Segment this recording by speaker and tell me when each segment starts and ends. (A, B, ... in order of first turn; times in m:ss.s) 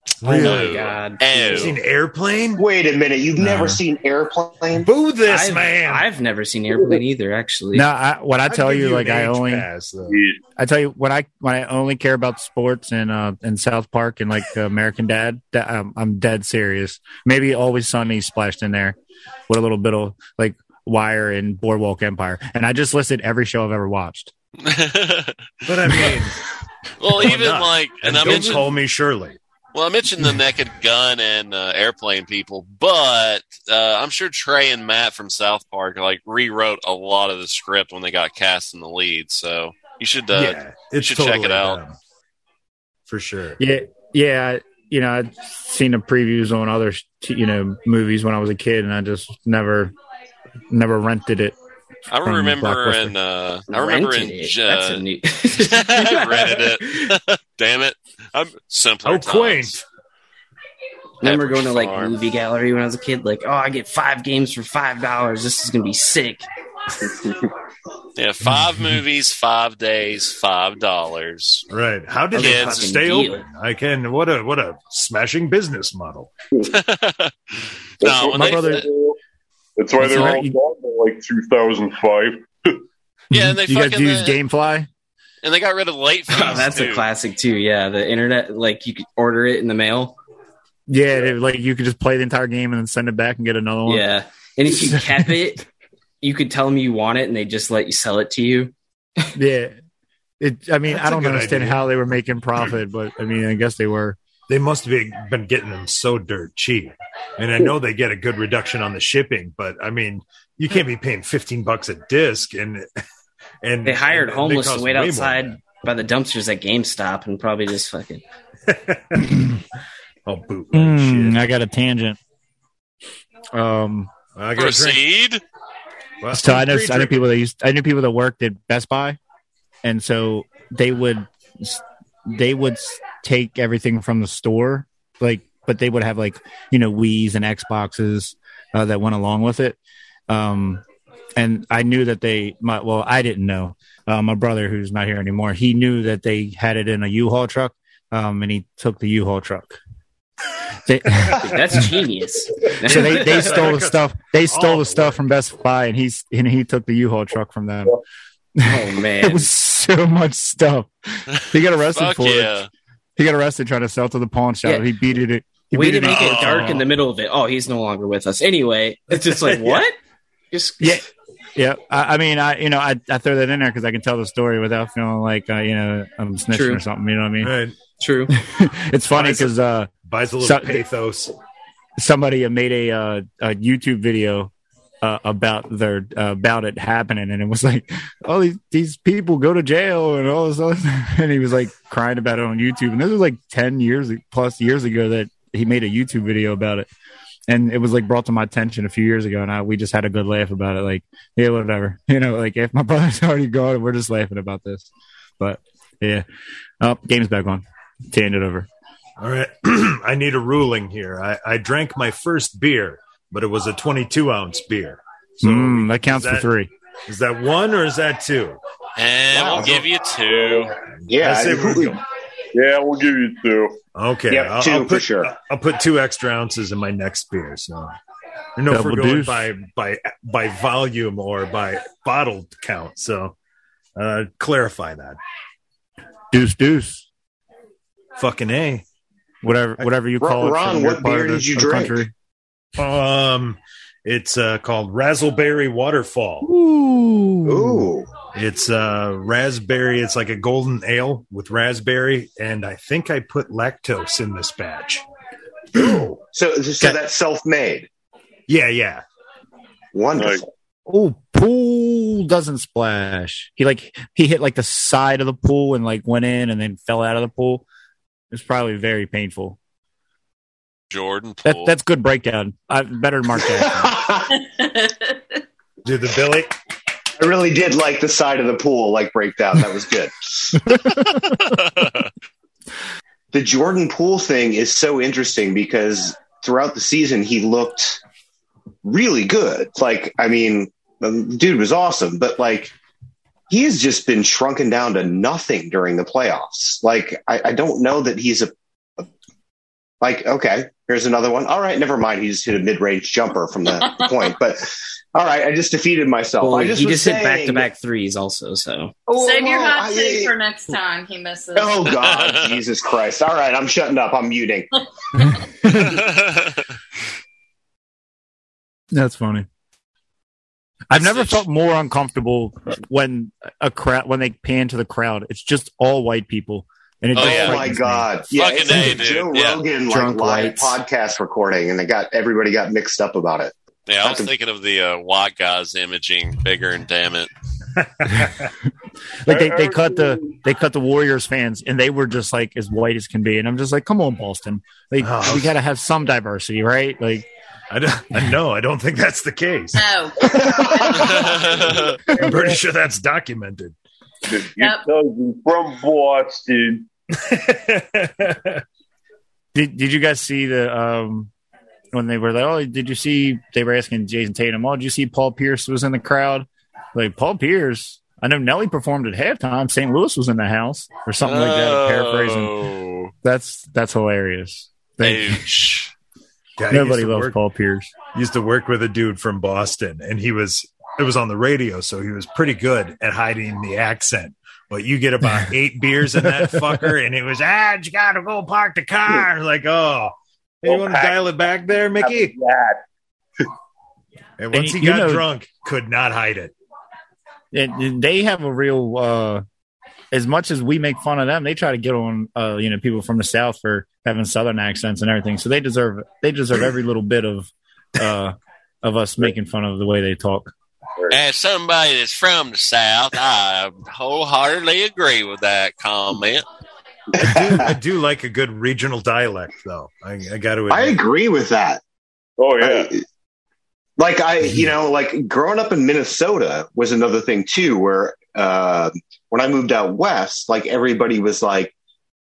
0:00.2-0:00.9 A
0:00.2-0:01.8 B
0:00.4-0:01.8 C
0:01.5-0:02.6 A
0:02.6-0:04.9 D
0:03.4-0:03.8 E
0:04.8-0:06.1 A
0:05.3-0:07.9 B
0:07.7-0:09.7 E
0:08.5-0:10.2 A
0:10.1-0:10.4 F
0:10.6-0:19.0 E
0:19.5-0:24.3 E
0:24.6-0:26.2 C
0:25.6-0:26.4 A
0:27.0-0:28.8 C
0:27.1-0:29.4 A
0:29.7-0:41.8 C
0:40.3-0:42.0 A
0:43.1-0:43.6 A
0:43.6-0:49.9 E
0:50.7-0:51.6 E
0:52.1-0:55.0 C
0:52.2-0:53.2 E
0:53.7-0:57.2 B
0:55.6-0:59.8 C
0:59.0-0:59.8 A
1:01.2-1:06.5 B
1:01.2-1:02.2 C
1:08.2-1:11.7 C
1:08.4-1:09.0 A
1:11.7-1:16.3 A
1:12.3-1:13.5 B
1:12.4-1:12.8 C
1:16.7-1:17.4 C
1:18.0-1:18.8 C
1:18.0-1:19.2 F
1:18.3-1:18.8 E
1:19.8-1:22.8 F
1:20.0-1:20.6 E
1:23.3-1:24.9 E
1:23.3-1:24.4 C
1:25.4-1:27.1 C
1:26.3-1:30.2 B
1:30.9-1:34.1 E
1:33.9-1:35.6 B
1:34.7-1:35.3 E
1:36.2-1:39.3 B
1:39.4-1:39.8 E
1:40.4-1:44.2 E
1:40.8-1:41.9 A
1:44.5-1:52.9 A
1:53.6-1:55.6 A
1:53.9-1:58.2 B
1:58.7-1:59.6 A
2:00.2-2:01.5 A
2:00.7-2:02.2 E
2:03.5-2:04.1 E
2:04.4-2:05.0 A
2:04.6-2:05.4 C
2:06.2-2:07.3 A
2:06.3-2:09.2 E
2:09.8-2:19.8 E
2:20.3-2:20.8 E
2:21.4-2:29.8 E
2:30.8-2:31.8 E
2:31.4-2:33.7 B
2:32.8-2:35.2 A
2:32.9-2:38.0 E
2:38.6-2:42.6 E
2:38.6-2:39.5 B
2:41.9-2:42.7 C
2:43.2-2:46.8 E
2:45.7-2:50.0 B
2:46.2-2:46.8 A
2:49.1-2:49.8 A
2:50.5-2:51.0 B
2:50.8-2:51.0 E
2:51.6-2:57.5 E
2:56.5-2:56.8 B
2:57.4-2:57.8 A
2:58.0-2:58.3 B
2:58.4-3:00.8 E
2:59.1-3:01.3 A
3:02.0-3:04.5 E
3:05.0-3:16.9 E
3:17.5-3:24.9 E
3:25.4-3:26.2 E
3:26.8-3:28.7 E
3:29.2-3:36.5 A
3:35.4-3:36.7 E
3:37.1-3:38.6 A
3:39.0-3:40.7 C
3:39.3-3:39.8 D
3:40.3-3:40.7 F
3:41.1-3:42.0 D
3:41.1-3:42.0 A
3:42.5-3:43.8 F
3:44.0-3:47.9 A
3:44.3-3:45.3 D
3:48.6-3:53.4 A
3:48.7-3:49.5 E
3:54.0-3:55.2 A
3:56.3-3:57.1 E
3:58.2-3:58.8 A
3:59.4-4:02.1 E
4:00.2-4:02.0 D
4:02.8-4:06.5 A
4:06.4-4:07.9 E
4:07.5-4:08.1 D
4:08.3-4:15.0 A
4:15.8-4:16.2 A
4:15.8-4:17.9 D
4:18.5-4:19.0 A
4:19.9-4:20.5 D
4:20.1-4:20.4 F
4:20.9-4:27.6 E
4:28.3-4:29.6 E
4:30.9-4:31.7 C
4:31.4-4:34.0 E
4:33.4-4:34.3 D
4:34.5-4:35.0 G
4:35.8-4:36.5 A
4:37.2-4:40.6 D
4:40.7-4:41.4 E
4:41.4-4:42.1 C
4:43.3-4:48.0 D
4:48.8-4:52.7 D
4:53.5-4:59.0 D
5:00.0-5:07.7 D
5:06.4-5:09.0 B
5:09.1-5:11.8 G
5:09.1-5:10.3 D
5:11.5-5:14.7 D
5:11.9-5:12.6 C
5:15.2-5:16.1 E
5:15.7-5:16.6 C
5:18.9-5:19.5 E
5:20.9-5:29.0 E
5:20.9-5:21.4 C
5:27.2-5:27.6 C
5:27.2-5:34.3 D
5:28.3-5:29.7 C
5:29.9-5:30.8 B
5:33.9-5:37.3 C
5:37.8-5:38.5 A
5:39.2-5:47.2 E
5:39.3-5:40.3 F
5:45.0-5:45.6 A
5:47.7-5:49.8 A
5:49.8-5:51.3 G
5:50.2-5:51.1 D
5:51.0-5:53.8 A
5:51.1-5:51.5 C
5:51.5-5:52.6 F
5:54.3-5:56.9 F
5:54.6-5:54.8 G
5:57.1-5:58.6 A
5:59.5-6:01.3 E
6:01.9-6:12.5 E
6:11.2-6:13.1 C
6:13.2-6:15.5 E
6:15.0-6:15.9 C
6:16.6-6:17.4 A
6:16.7-6:17.9 E
6:18.1-6:32.3 A
6:26.2-6:26.9 E
6:30.6-6:31.3 F
6:32.0-6:32.8 F
6:34.4-6:36.5 A
6:34.5-6:35.3 E
6:37.5-6:39.4 E
6:40.1-6:50.5 E
6:51.1-6:56.4 C
6:57.2-7:01.0 A
6:57.2-6:57.7 D
7:00.7-7:01.8 D
7:02.4-7:03.0 F
7:02.6-7:03.0 D
7:04.0-7:11.7 D